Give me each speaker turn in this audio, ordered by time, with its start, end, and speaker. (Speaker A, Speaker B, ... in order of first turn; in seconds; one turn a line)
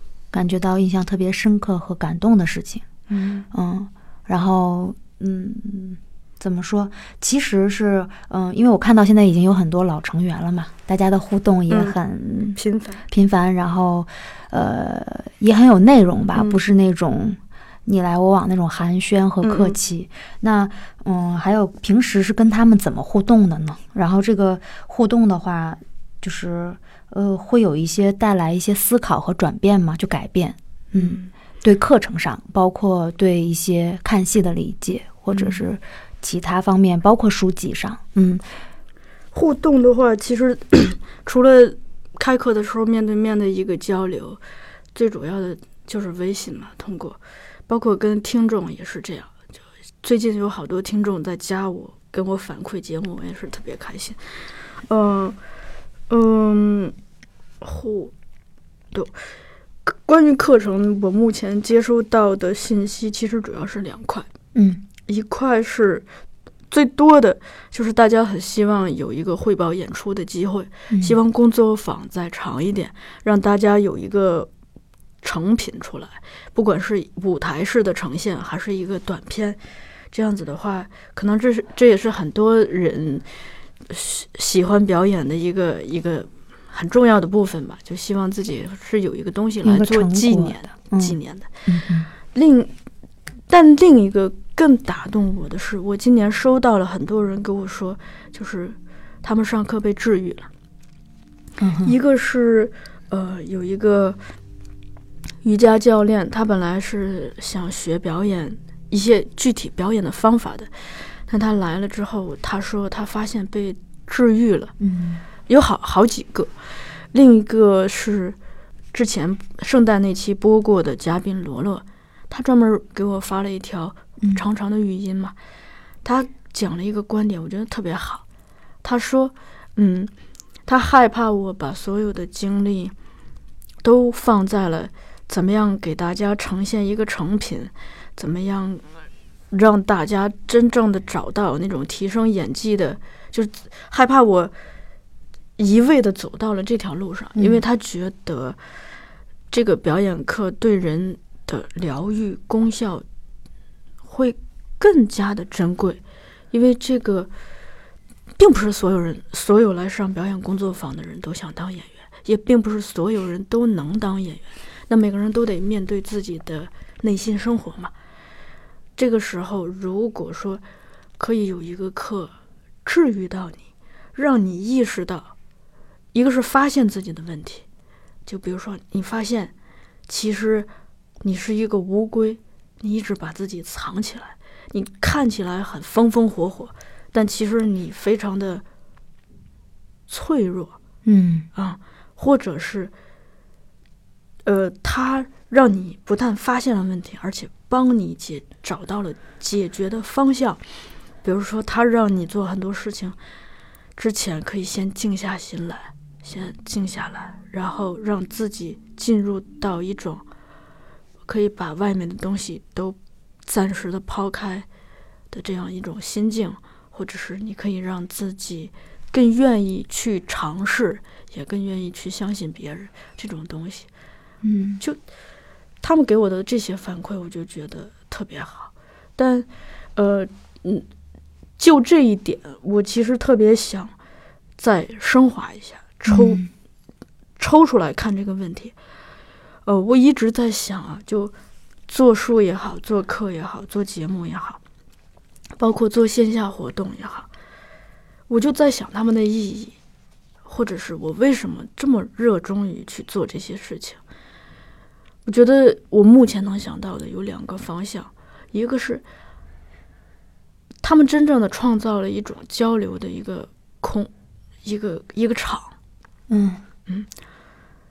Speaker A: 0.3-2.9
Speaker B: 3.1-3.5
Speaker A: 3.5-38.4
Speaker B: 11.7-12.0
Speaker B: 12.6-13.0
Speaker B: 16.4-16.6
Speaker B: 19.4-19.8
Speaker B: 30.9-31.3
Speaker B: 35.3-35.6
Speaker B: 39.3-44.4
Speaker B: 45.0-49.3
Speaker B: 50.0-55.4
Speaker B: 56.1-57.0
Speaker B: 57.6-58.1
Speaker B: 58.9-59.2
Speaker B: 59.9-64.3
Speaker A: 64.5-64.8
Speaker B: 65.1-66.1
Speaker B: 66.7-74.5
Speaker A: 70.9-71.2
Speaker B: 75.2-79.6
Speaker B: 80.1-83.3
Speaker B: 83.9-91.5
Speaker A: 89.6-92.1
Speaker B: 92.3-92.7
Speaker B: 93.5-100.5
Speaker A: 101.6-102.0
Speaker B: 101.8-104.2
Speaker B: 105.4-114.7
Speaker A: 114.8-115.2
Speaker B: 115.5-116.5
Speaker B: 117.1-118.4
Speaker B: 118.9-125.4
Speaker B: 126.0-128.2
Speaker B: 128.8-130.1
Speaker B: 130.7-132.9
Speaker B: 133.8-138.8
Speaker B: 139.5-144.5
Speaker B: 145.6-148.6
Speaker A: 147.4-147.6
Speaker B: 149.5-153.1
Speaker B: 154.1-156.0
Speaker B: 156.5-157.3
Speaker B: 158.4-167.9
Speaker B: 169.0-170.6
Speaker B: 171.2-172.3
Speaker B: 172.8-175.3
Speaker B: 176.1-177.7
Speaker B: 178.3-179.5
Speaker B: 180.1-180.7
Speaker B: 181.2-188.6
Speaker B: 190.1-190.8
Speaker A: 191.1-191.5
Speaker B: 191.6-192.9
Speaker B: 194.4-200.6
Speaker B: 201.2-203.2
Speaker B: 204.0-210.2
Speaker B: 211.3-214.7
Speaker B: 215.3-223.9
Speaker A: 224.4-224.8
Speaker B: 225.8-230.9
Speaker B: 231.6-233.9
Speaker B: 234.6-236.4
Speaker A: 236.1-236.5
Speaker B: 237.4-238.8
Speaker B: 239.7-241.3
Speaker B: 241.9-244.6
Speaker B: 245.6-247.3
Speaker B: 248.3-249.8
Speaker B: 250.4-254.0
Speaker B: 255.3-259.0
Speaker B: 260.8-264.1
Speaker B: 264.6-265.7
Speaker A: 266.3-266.6